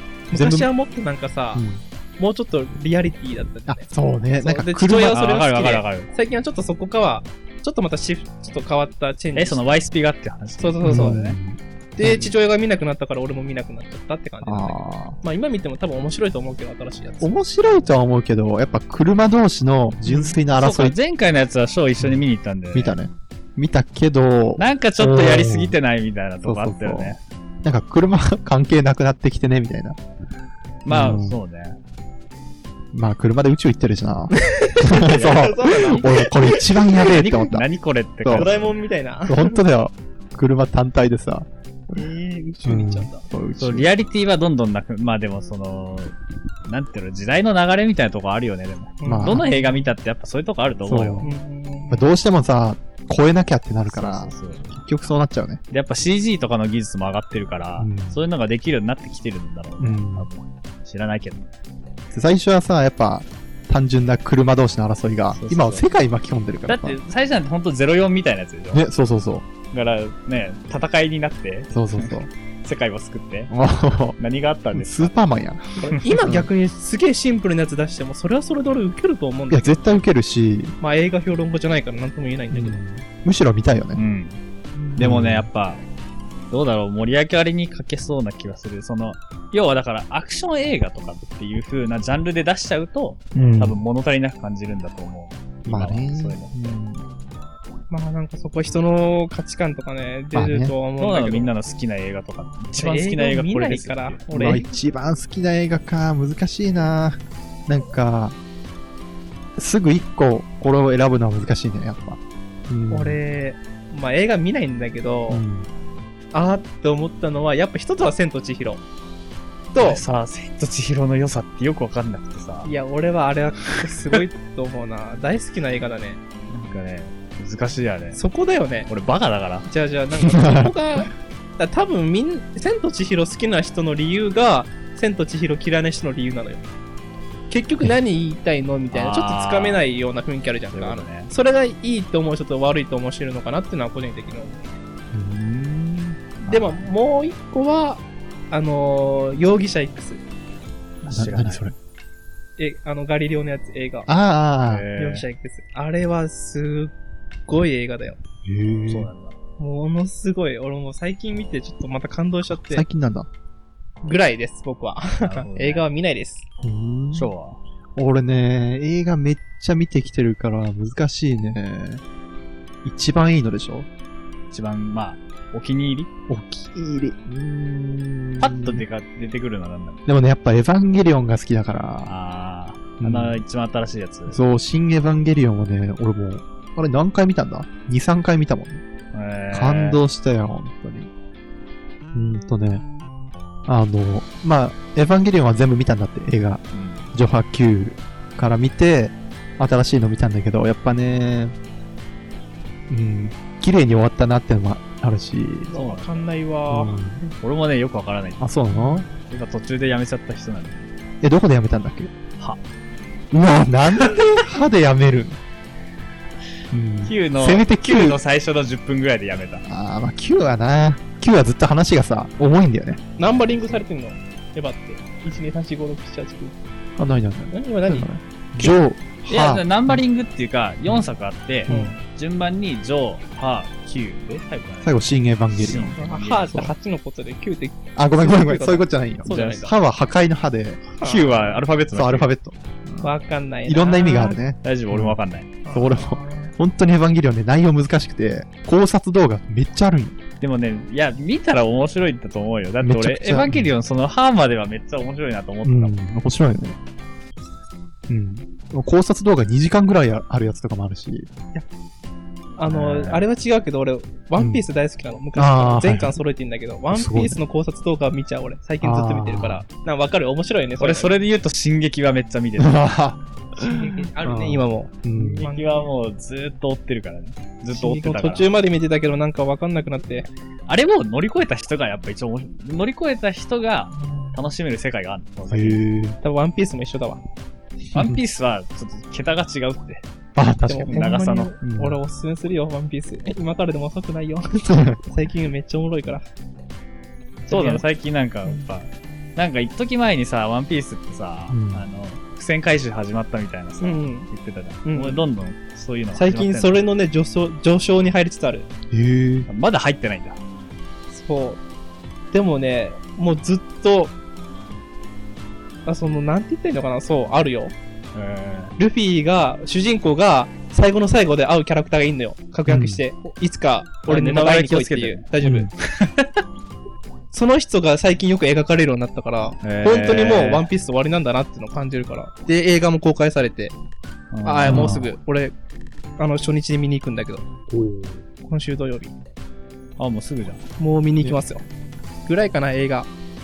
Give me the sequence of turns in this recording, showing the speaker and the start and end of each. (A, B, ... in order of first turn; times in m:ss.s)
0:00.3-0:01.6 A
0:00.3-0:00.7 B
0:01.5-0:01.8 B
0:02.2-0:03.9 A
0:03.7-0:05.2 B
0:04.4-0:09.6 A
0:05.1-0:06.1 C
0:09.3-0:11.4 C
0:10.6-0:11.2 A
0:10.8-0:12.3 B
0:12.0-0:17.3 A
0:14.4-0:15.2 B
0:17.2-0:21.0 B
0:20.0-0:20.4 A
0:20.5-0:22.9 C
0:22.0-0:25.8 B
0:24.6-0:27.2 C
0:26.4-0:30.0 B
0:30.8-0:31.8 C
0:30.9-0:31.4 B
0:32.9-0:37.6 B
0:34.3-0:36.8 A
0:35.1-0:35.5 C
0:37.0-0:38.8 C
0:38.3-0:39.6 A
0:39.3-0:41.5 B
0:41.9-0:43.2 A
0:42.6-0:43.9 B
0:43.6-0:46.1 C
0:46.7-0:51.3 C
0:49.0-0:49.9 A
0:49.1-0:49.5 B
0:50.8-0:51.3 B
0:51.2-0:52.0 A
0:51.9-0:55.6 B
0:53.9-0:54.7 C
0:55.7-1:01.4 C
0:57.8-0:58.2 B
0:59.8-1:00.3 B
1:02.1-1:07.0 B
1:05.3-1:05.8 C
1:06.7-1:08.8 C
1:08.7-1:09.5 B
1:09.7-1:13.5 C
1:11.7-1:12.3 B
1:13.5-1:14.2 B
1:14.2-1:15.2 C
1:14.7-1:16.5 B
1:15.8-1:19.8 A
1:19.5-1:20.8 B
1:20.8-1:22.8 A
1:22.5-1:24.0 B
1:24.0-1:24.4 C
1:25.0-1:25.5 B
1:25.0-1:25.8 C
1:26.5-1:36.8 C
1:33.3-1:33.8 B
1:35.7-1:37.0 B
1:37.9-1:41.5 A
1:40.3-1:40.7 B
1:41.0-1:44.6 C
1:42.8-1:44.6 A
1:44.3-1:48.4 B
1:49.6-1:53.2 B
1:52.9-1:55.4 A
1:55.3-1:55.7 B
1:56.3-1:58.8 A
1:59.7-2:00.0 A
1:59.8-2:02.7 C
2:02.6-2:06.2 A
2:06.5-2:08.2 C
2:08.1-2:08.9 A
2:08.9-2:09.7 C
2:09.6-2:16.6 A
2:10.3-2:10.7 B
2:17.5-2:24.6 A
2:18.9-2:19.8 C
2:20.7-2:21.3 C
2:25.1-2:26.2 B
2:26.4-2:26.8 C
2:26.5-2:30.2 A
2:31.0-2:31.7 C
2:31.1-2:31.7 B
2:32.6-2:34.1 A
2:34.1-2:34.9 B
2:34.7-2:35.2 C
2:35.0-2:36.9 A
2:37.5-2:38.2 A
2:38.4-2:39.1 B
2:38.9-2:39.3 C
2:39.6-2:42.8 A
2:42.6-2:43.3 B
2:44.0-2:46.4 A
2:45.2-2:45.9 C
2:46.6-2:47.3 B
2:47.1-2:47.6 C
2:48.0-2:52.0 B
2:52.8-2:53.9 B
2:54.5-2:56.1 C
2:56.3-2:58.8 B
2:58.4-3:00.0 C
3:00.1-3:02.1 B
3:02.0-3:04.4 C
3:03.0-3:03.4 B
3:04.3-3:08.8 B
3:09.1-3:10.0 C
3:09.5-3:11.1 B
3:12.1-3:12.8 B
3:13.7-3:21.5 B
3:16.7-3:17.0 C
3:22.9-3:25.7 B
3:25.7-3:27.0 A
3:25.7-3:26.3 C
3:26.7-3:27.3 B
3:27.4-3:28.4 C
3:28.4-3:29.0 B
3:28.7-3:29.0 A
3:29.2-3:30.9 C
3:31.2-3:32.1 B
3:33.3-3:35.4 B
3:36.7-3:38.2 B
3:37.0-3:39.6 C
3:39.6-3:43.0 B
3:43.2-3:46.6 A
3:43.2-3:43.8 C
3:47.0-3:50.0 B
3:47.5-3:48.1 A
3:49.2-3:56.6 C
3:51.7-3:52.0 B
3:51.7-3:52.0 A
3:54.8-3:56.0 B
3:56.0-3:59.7 A
3:58.0-4:00.9 B
3:59.3-3:59.6 C
4:01.0-4:01.6 A
4:01.0-4:02.3 C
4:01.9-4:03.1 B
4:03.0-4:04.4 A
4:03.7-4:05.2 B
4:04.6-4:05.5 C
4:05.6-4:06.5 A
4:05.7-4:10.2 B
4:10.4-4:15.9 C
4:12.8-4:13.7 B
4:15.6-4:16.8 B
4:18.1-4:21.3 B
4:22.6-4:31.1 A
4:22.7-4:23.2 C
4:24.4-4:24.6 B
4:25.4-4:26.2 B
4:26.9-4:27.4 B
4:28.8-4:29.6 B
4:30.8-4:32.9 C
4:32.6-4:35.4 B
4:33.6-4:35.9 A
4:35.2-4:38.5 C
4:37.7-4:40.3 A
4:40.7-4:45.8 C
4:44.0-4:44.4 A
4:45.5-4:46.2 B
4:46.2-4:47.2 A
4:47.9-4:50.0 C
4:50.4-4:52.0 B
4:50.7-4:56.2 A
4:50.9-4:51.6 C
4:54.7-4:55.0 B
4:57.5-4:57.8 A
4:57.5-5:06.8 C
5:01.5-5:01.8 B
5:03.8-5:04.3 A
5:04.8-5:05.2 A
5:06.1-5:08.7 A
5:08.9-5:09.5 B
5:09.5-5:10.4 C
5:11.1-5:11.6 A
5:12.3-5:14.1 A
5:15.8-5:17.7 A
5:18.1-5:18.8 C
5:18.8-5:25.7 A
5:22.7-5:23.0 B
5:24.1-5:26.4 C
5:25.4-5:25.7 B
5:27.3-5:33.7 A
5:29.6-5:30.7 C
5:34.3-5:35.1 C
5:34.4-5:35.5 A
5:34.6-5:35.0 B
5:36.2-5:37.4 A
5:37.7-5:38.2 B
5:38.4-5:39.1 A
5:40.0-5:40.6 C
5:40.8-5:41.6 A
5:42.2-5:43.1 A